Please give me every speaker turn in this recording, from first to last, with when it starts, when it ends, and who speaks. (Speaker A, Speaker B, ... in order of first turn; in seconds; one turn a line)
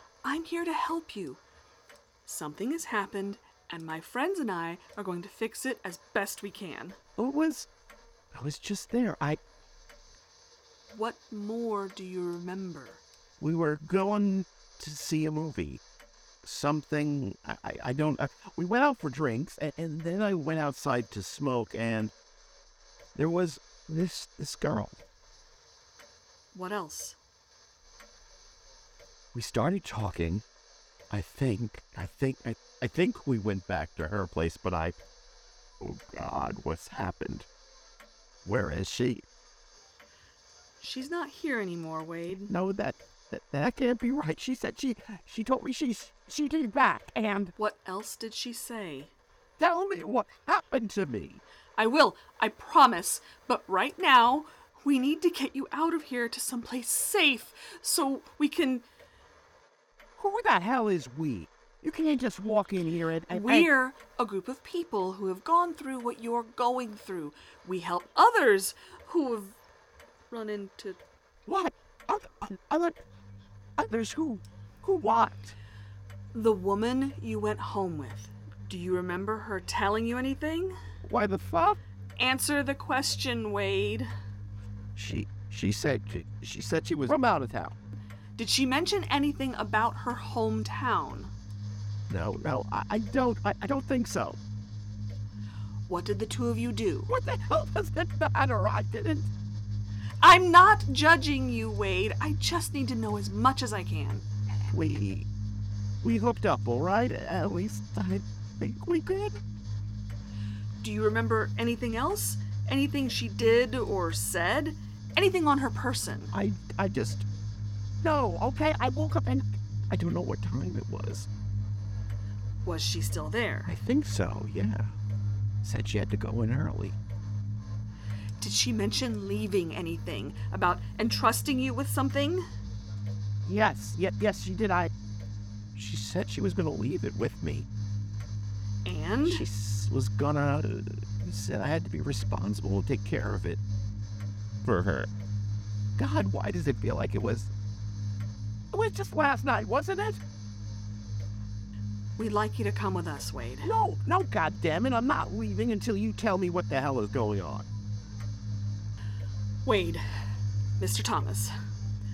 Speaker A: 0.2-1.4
Speaker A: 2.3-7.0
Speaker B: 7.2-7.7
Speaker B: 8.3-9.4
Speaker A: 10.9-13.0
Speaker B: 13.4-15.8
Speaker B: 16.4-22.1
Speaker B: 23.1-25.0
Speaker A: 26.5-27.2
Speaker B: 29.3-30.4
Speaker B: 31.1-35.0
Speaker B: 35.8-37.5
Speaker B: 38.5-39.3
Speaker A: 40.8-42.5
Speaker B: 42.5-47.5
Speaker A: 47.6-49.1
Speaker B: 49.6-51.4
Speaker A: 51.8-58.8
Speaker B: 60.2-63.7
Speaker A: 63.3-69.6
Speaker A: 70.3-71.0
Speaker B: 71.5-73.0
Speaker B: 73.8-75.5
Speaker A: 76.3-80.7
Speaker B: 81.0-81.8
Speaker A: 82.2-84.1
Speaker B: 85.0-87.8
Speaker A: 88.4-91.3
Speaker B: 92.1-94.4
Speaker A: 95.9-97.1
Speaker B: 97.1-99.3
Speaker A: 100.2-104.2
Speaker B: 104.7-105.3
Speaker B: 106.0-109.4
Speaker A: 110.8-116.3
Speaker B: 116.3-117.3
Speaker B: 118.0-121.3
Speaker A: 122.7-123.7
Speaker B: 123.7-124.9
Speaker B: 125.6-127.0
Speaker A: 128.4-132.4
Speaker B: 133.5-134.9
Speaker B: 135.8-137.7
Speaker A: 138.8-139.4
Speaker B: 139.3-143.6
Speaker B: 144.6-145.1
Speaker B: 146.0-147.5
Speaker B: 148.7-150.2
Speaker A: 152.2-153.7
Speaker B: 153.6-157.7
Speaker A: 159.7-160.0
Speaker A: 160.8-161.5